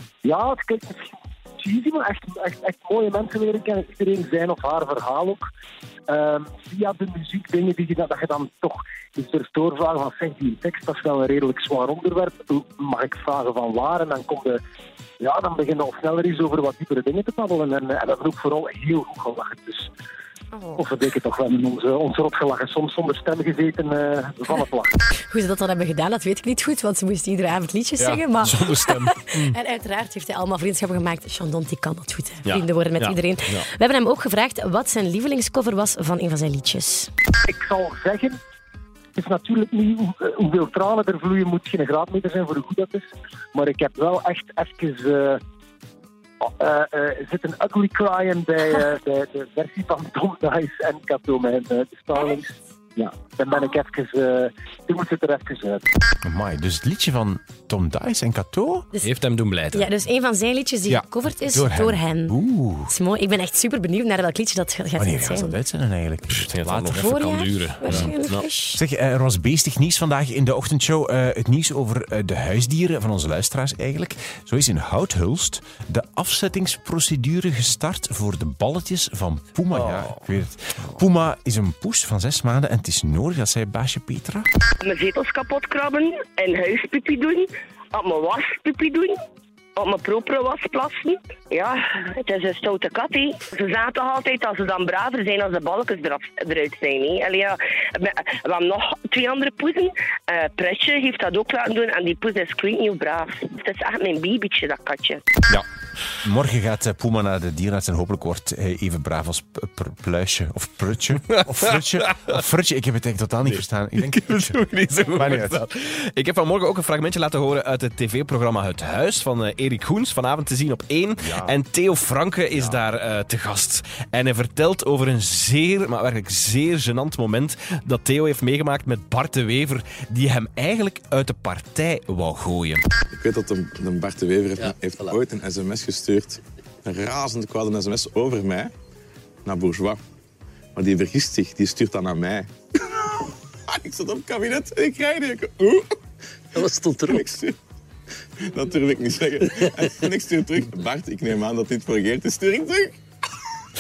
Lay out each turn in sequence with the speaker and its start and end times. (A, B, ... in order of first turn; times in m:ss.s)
0:00.2-0:05.4 A
0:06.1-0:14.6 A
0:15.2-0:19.9 A
0:20.8-0:24.9 A
0:25.2-0:37.1 B
0:28.0-0:29.5 C
0:32.4-0:33.7 C
0:37.5-0:38.4 A
0:39.2-0:45.4 A
0:46.4-0:55.8 A
0:56.2-0:58.9 D
0:59.0-0:59.9 C
0:59.7-1:05.6 B
1:00.9-1:02.9 D
1:05.0-1:07.2 D
1:06.3-1:08.5 C
1:07.0-1:08.8 B
1:07.9-1:08.1 D
1:08.8-1:24.5 D
1:19.7-1:20.3 C
1:24.8-1:29.2 E
1:29.8-1:45.2 E
1:45.5-1:55.6 D
1:51.3-1:52.3 C
1:53.5-2:12.8 C
2:01.2-2:01.6 D
2:13.1-2:18.7 F
2:19.4-2:20.0 F
2:20.8-2:22.5 F
2:23.7-2:25.9 F
2:26.5-2:27.5 F
2:28.4-2:33.0 F